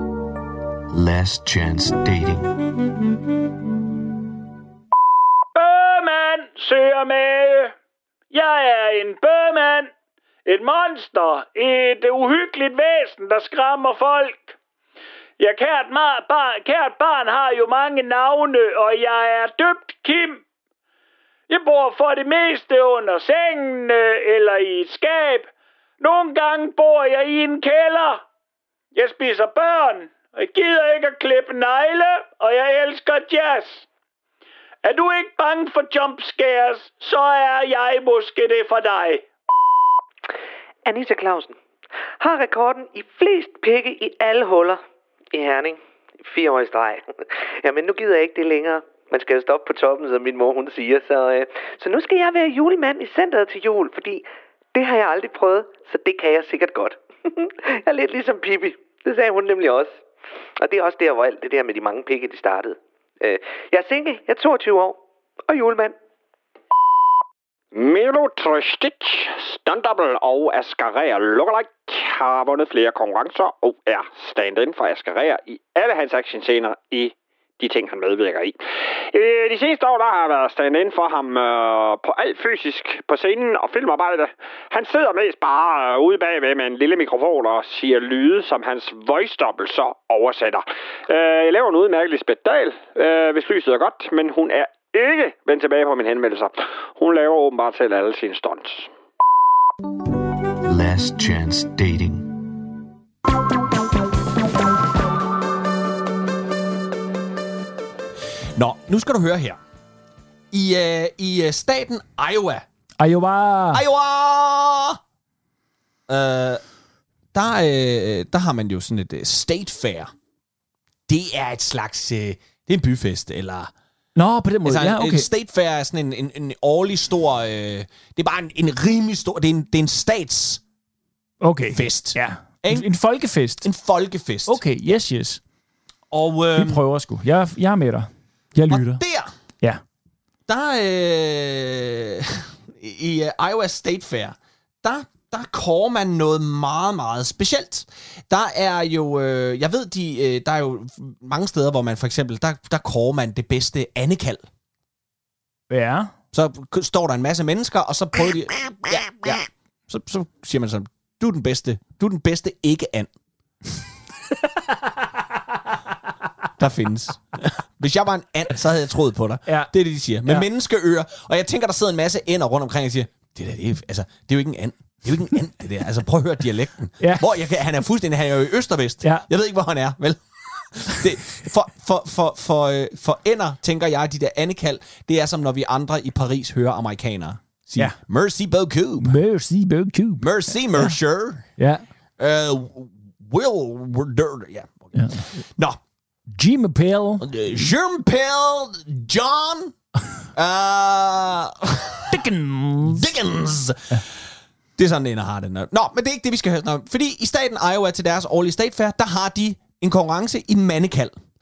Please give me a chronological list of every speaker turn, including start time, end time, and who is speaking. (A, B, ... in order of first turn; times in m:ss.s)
0:00.9-0:02.5 A
0:05.5-0:07.7 B
0:08.3-0:09.9 B
0:10.4-0:14.5 B
0:15.4-0:20.4 B
0:21.5-0:25.5 B
0:26.0-0:28.2 B
0:28.9-0:33.8 B
0:34.8-0:39.2 B
0:40.8-0:41.6 C
0:42.2-0:44.8 C
0:45.3-0:59.9 C
1:00.6-1:06.0 C
1:07.7-1:38.9 D
1:40.6-1:42.4 A
1:48.5-1:49.6 E
1:50.5-1:52.6 E
1:53.0-1:53.8 F
1:53.7-1:55.0 E
1:56.1-1:56.6 E
1:57.3-2:00.1 E
2:01.1-2:03.7 E
2:04.2-2:05.3 F
2:04.6-2:10.6 E
2:11.4-2:13.7 F
2:11.7-2:12.9 E
2:13.6-2:14.6 E
2:14.5-2:15.4 F
2:16.1-2:16.8 E
2:16.5-2:19.0 F
2:18.7-2:19.3 E
2:20.5-2:34.4 E
2:35.7-2:36.1 F
2:36.3-2:43.1 E
2:46.6-3:09.2 E
2:57.0-2:57.2 F
3:09.0-3:11.0 F
3:10.2-3:11.5 E
3:11.6-3:11.8 F
3:12.2-3:15.8 E
3:14.9-3:15.2 F
3:16.3-3:17.3 F
3:17.2-3:19.7 E
3:20.3-3:22.2 E
3:22.1-3:23.1 F
3:22.8-3:24.1 E
3:24.8-3:31.1 E